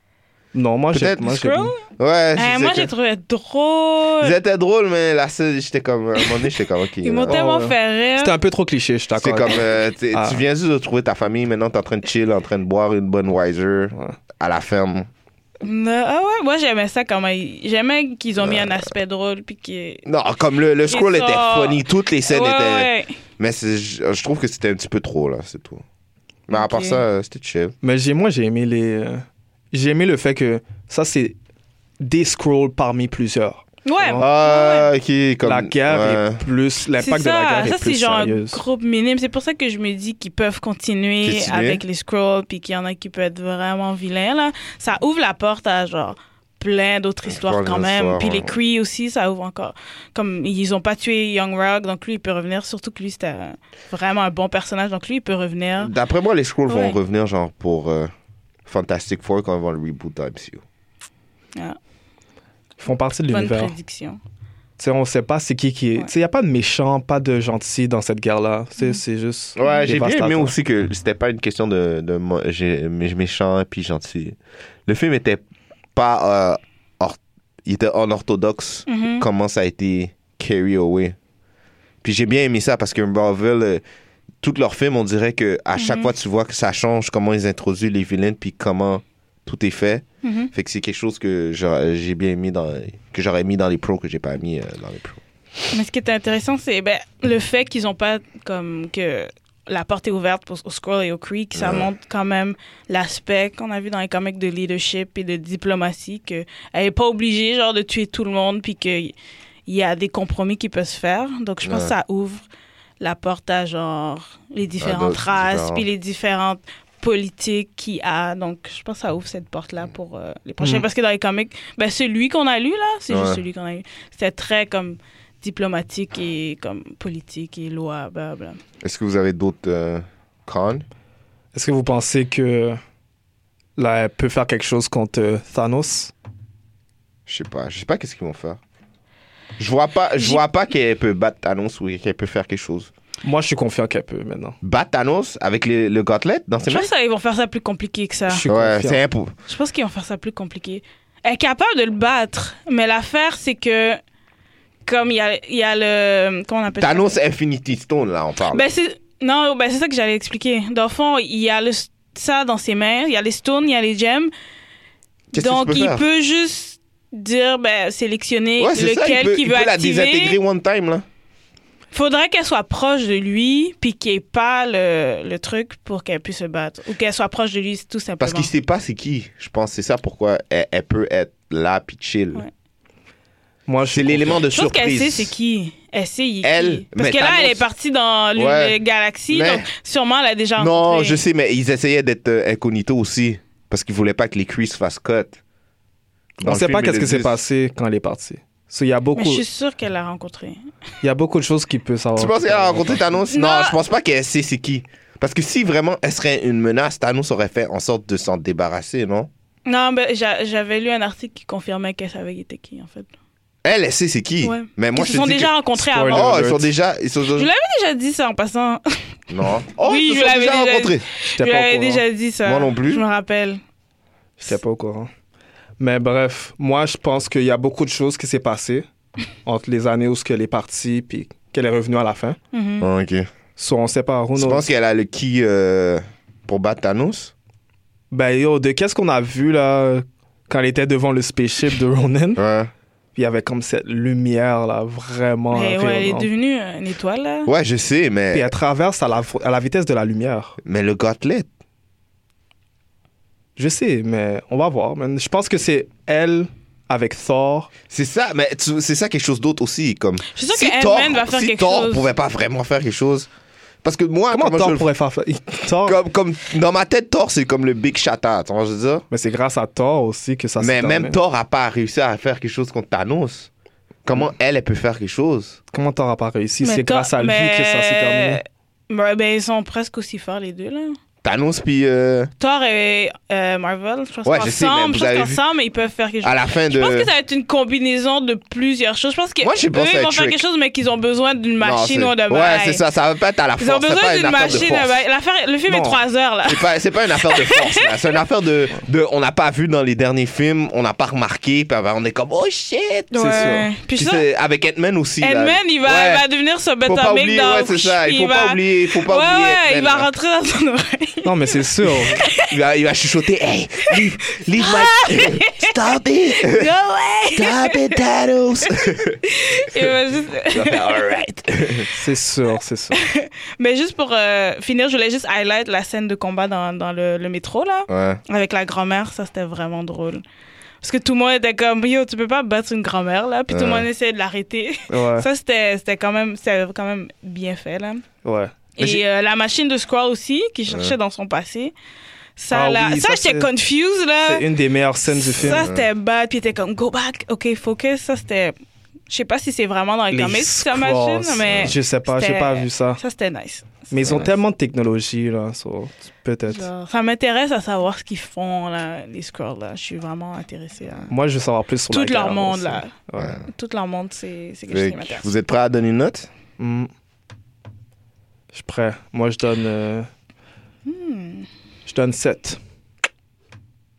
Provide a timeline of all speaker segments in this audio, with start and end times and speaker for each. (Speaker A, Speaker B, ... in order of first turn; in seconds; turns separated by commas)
Speaker A: 0.5-1.7, Speaker B: 0.9-1.4, Speaker C: 1.3-1.8, Speaker B: 1.9-2.9, Speaker C: 2.3-4.3, Speaker B: 4.2-7.4, Speaker C: 7.0-8.3, Speaker A: 7.3-10.4, Speaker B: 9.2-15.1, Speaker C: 15.6-20.0, Speaker B: 18.4-18.9, Speaker B: 20.1-25.8, Speaker C: 20.9-23.1, Speaker B: 26.5-27.7, Speaker C: 26.5-27.0, Speaker A: 27.8-31.4, Speaker A: 32.0-34.2, Speaker C: 33.8-34.9, Speaker B: 34.2-36.4, Speaker A: 35.4-38.6, Speaker C: 37.0-55.9, Speaker B: 41.2-41.8, Speaker B: 47.2-48.5, Speaker B: 55.8-58.1, Speaker C: 56.7-57.0, Speaker B: 58.6-60.6, Speaker A: 62.8-63.7, Speaker C: 63.3-64.2, Speaker A: 64.8-70.5, Speaker B: 69.6-75.4, Speaker C: 69.6-69.9, Speaker B: 75.9-81.2, Speaker C: 78.9-79.2, Speaker B: 82.0-83.8, Speaker B: 84.4-95.2, Speaker C: 85.8-86.1, Speaker C: 90.2-90.5, Speaker C: 95.7-109.1, Speaker B: 101.5-101.9, Speaker C: 109.7-112.4, Speaker B: 111.6-111.9, Speaker C: 113.0-128.6, Speaker B: 114.8-115.8, Speaker B: 123.1-123.4, Speaker B: 128.8-130.8, Speaker A: 131.5-132.8, Speaker A: 133.8-136.1, Speaker B: 137.3-138.6, Speaker B: 139.6-142.9, Speaker A: 143.2-144.6, Speaker B: 144.6-146.9, Speaker C: 146.7-148.4, Speaker A: 148.3-149.0, Speaker B: 148.4-149.3, Speaker C: 149.5-154.0, Speaker C: 154.8-157.1, Speaker B: 156.8-158.7, Speaker C: 158.5-164.3, Speaker B: 165.3-166.0, Speaker C: 165.3-170.4, Speaker B: 168.6-171.1, Speaker C: 171.9-178.5, Speaker B: 178.2-182.4, Speaker A: 183.7-184.4, Speaker B: 183.8-185.3, Speaker C: 184.5-191.2, Speaker B: 186.4-187.6, Speaker B: 188.3-188.8, Speaker B: 189.3-189.7, Speaker B: 190.6-195.4, Speaker B: 196.4-197.4, Speaker A: 196.4-199.4, Speaker C: 199.1-200.6, Speaker A: 201.0-203.1, Speaker B: 202.2-209.3, Speaker C: 203.3-203.8, Speaker C: 209.7-213.1, Speaker B: 213.6-215.5, Speaker C: 214.4-216.5, Speaker A: 215.7-216.7, Speaker B: 216.1-217.5, Speaker C: 217.3-219.2, Speaker B: 219.3-221.0, Speaker C: 219.8-223.6, Speaker A: 221.3-222.0, Speaker B: 222.4-223.0, Speaker A: 224.4-225.1, Speaker A: 225.8-228.8, Speaker A: 229.4-232.4, Speaker C: 232.5-232.9, Speaker B: 232.8-233.3, Speaker A: 233.6-234.6, Speaker B: 234.3-237.3, Speaker A: 238.1-242.4, Speaker B: 242.4-242.7, Speaker A: 243.1-246.3, Speaker C: 245.5-247.5, Speaker B: 247.4-248.5, Speaker A: 248.3-250.6, Speaker B: 250.6-251.5, Speaker A: 253.6-257.7, Speaker B: 257.9-263.3, Speaker C: 260.3-262.1, Speaker B: 263.8-264.9, Speaker A: 264.3-266.0, Speaker B: 265.8-269.0, Speaker A: 269.1-271.2, Speaker B: 270.6-273.5, Speaker B: 274.0-275.6, Speaker A: 275.7-278.4, Speaker C: 276.6-281.0, Speaker B: 281.2-282.3, Speaker C: 282.4-292.8, Speaker B: 284.2-285.4, Speaker B: 286.2-287.1, Speaker B: 289.4-290.4, Speaker B: 291.6-295.0, Speaker C: 293.6-298.2, Speaker A: 295.7-296.0, Speaker B: 296.4-306.2, Speaker C: 303.1-304.2, Speaker A: 303.1-303.7, Speaker C: 305.2-312.5, Speaker B: 306.8-310.1, Speaker A: 311.2-312.2, Speaker B: 312.4-316.7, Speaker C: 313.9-315.7, Speaker C: 316.3-318.0, Speaker B: 317.3-319.2, Speaker C: 319.3-321.2, Speaker B: 320.5-321.9, Speaker A: 321.9-323.0, Speaker C: 322.9-330.2, Speaker B: 327.9-328.2, Speaker C: 330.8-338.0, Speaker B: 333.5-333.9, Speaker A: 334.9-335.3, Speaker A: 338.2-338.5, Speaker C: 338.8-341.7, Speaker B: 338.8-339.0, Speaker B: 340.7-340.9, Speaker C: 342.4-344.4, Speaker A: 342.5-343.5, Speaker A: 344.2-345.6, Speaker C: 345.1-348.6, Speaker B: 345.4-345.9, Speaker C: 349.1-353.9, Speaker A: 350.1-353.0, Speaker B: 351.4-351.7, Speaker A: 353.9-356.7, Speaker B: 354.0-354.3, Speaker C: 356.5-361.1, Speaker A: 361.1-363.4, Speaker C: 361.9-365.3, Speaker B: 364.7-366.3, Speaker A: 366.6-366.9, Speaker A: 368.5-370.1, Speaker C: 370.9-371.5, Speaker A: 371.9-372.6